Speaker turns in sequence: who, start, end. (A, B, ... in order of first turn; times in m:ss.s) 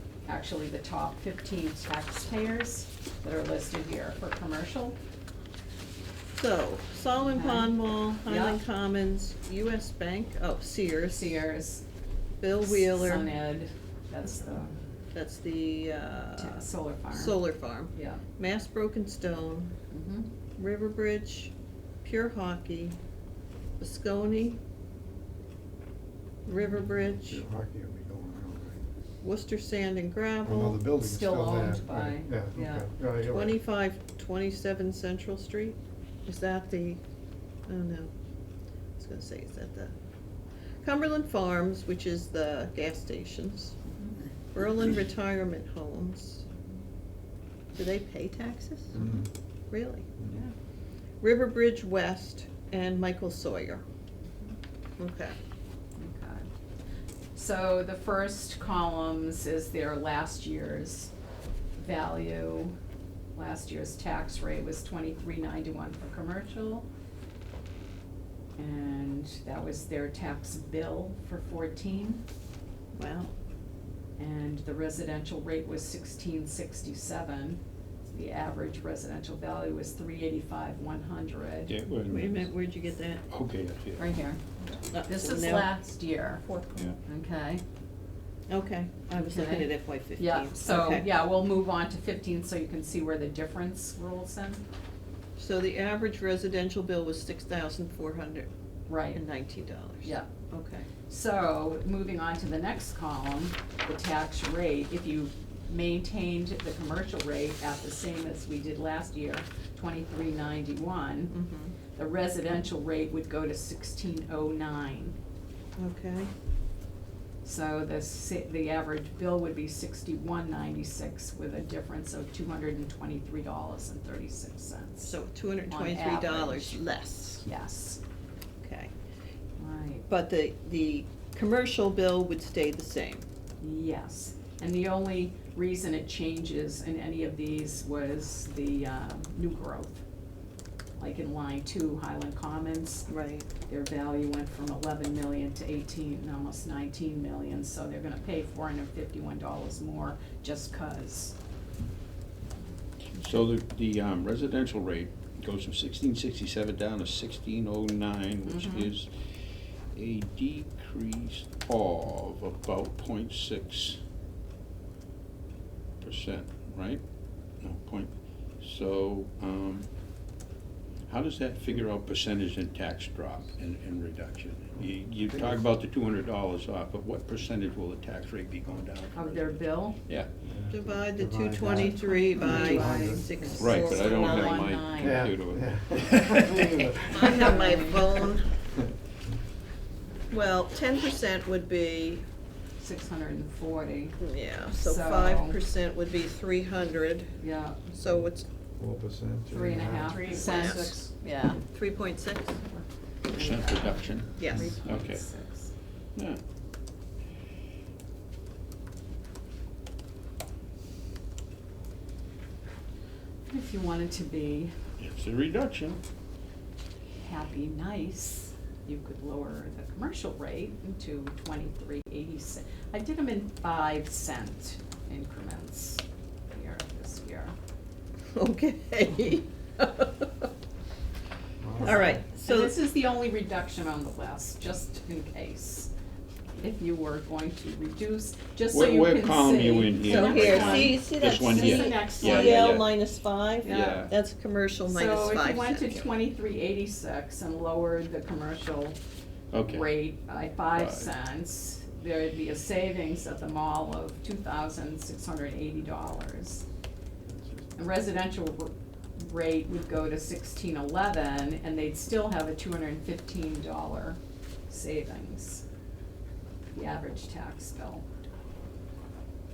0:00.2-0:05.0 A
0:06.3-0:11.4 B
0:07.2-0:08.6 A
0:11.1-0:11.8 A
0:12.4-0:13.3 B
0:12.6-0:14.7 A
0:15.1-0:19.7 B
0:16.4-0:18.2 A
0:19.9-0:20.3 A
0:20.6-0:21.5 B
0:22.0-0:23.0 B
0:23.8-0:24.6 B
0:26.4-0:27.4 B
0:26.7-0:28.8 C
0:29.2-0:30.8 B
0:30.4-0:33.6 C
0:31.0-0:32.9 A
0:33.2-0:37.0 B
0:37.7-0:38.1 B
0:39.0-0:39.9 B
0:40.8-0:43.8 B
0:44.5-0:46.4 B
0:47.7-0:49.0 B
0:48.9-0:49.3 C
0:49.7-0:50.1 B
0:51.2-0:53.8 B
0:55.0-0:55.4 B
0:56.0-0:56.4 A
0:57.3-1:01.1 A
1:01.8-1:02.7 A
1:03.3-1:06.8 A
1:08.6-1:12.2 A
1:12.9-1:13.3 B
1:14.2-1:21.7 A
1:21.7-1:22.5 D
1:22.1-1:23.2 B
1:23.3-1:24.1 D
1:24.0-1:24.4 A
1:24.9-1:25.7 B
1:25.0-1:26.4 A
1:26.4-1:26.9 B
1:27.0-1:27.6 A
1:28.5-1:31.1 B
1:29.1-1:34.6 A
1:35.4-1:38.5 B
1:38.9-1:39.2 A
1:39.1-1:40.9 B
1:40.0-1:40.3 A
1:41.0-1:51.3 A
1:51.3-1:51.7 B
1:51.9-1:55.1 A
1:55.8-1:56.3 B
1:57.4-2:05.2 A
2:05.0-2:07.4 B
2:05.7-2:06.8 A
2:07.4-2:08.0 A
2:08.6-2:08.9 B
2:09.6-2:10.0 A
2:10.1-2:13.2 B
2:13.6-2:20.0 A
2:21.0-2:23.0 A
2:23.1-2:23.5 B
2:23.7-2:31.3 A
2:33.1-2:44.0 D
2:38.4-2:38.9 A
2:46.0-2:47.0 D
2:47.6-2:49.9 D
2:51.1-3:00.3 D
2:55.1-2:55.6 C
2:59.1-3:00.0 A
3:00.4-3:03.6 C
3:00.7-3:04.8 B
3:01.7-3:05.3 A
3:03.6-3:06.8 D
3:05.0-3:07.4 C
3:07.0-3:08.3 A
3:07.1-3:08.6 B
3:10.3-3:12.2 B
3:12.8-3:14.2 A
3:14.2-3:17.3 B
3:14.7-3:15.6 A
3:17.4-3:17.8 A
3:17.9-3:18.4 B
3:18.1-3:20.4 C
3:19.5-3:21.6 A
3:20.1-3:21.0 B
3:21.5-3:22.8 B
3:23.3-3:25.2 D
3:23.3-3:25.7 A
3:24.4-3:24.7 B
3:24.4-3:24.8 C
3:33.5-3:34.7 A
3:35.0-3:36.0 D
3:37.2-3:47.5 A
3:48.3-3:50.5 B
3:51.6-3:52.2 C
3:51.8-3:55.9 A
3:51.8-3:52.7 B
3:56.6-4:02.8 A
3:58.7-4:02.9 D
4:00.0-4:05.9 B
4:03.6-4:04.1 D
4:03.6-4:04.1 A
4:04.9-4:09.0 A
4:09.5-4:09.9 D
4:09.5-4:16.6 A
4:10.7-4:11.1 D
4:17.2-4:17.8 C
4:17.8-4:25.6 A
4:26.7-4:28.0 A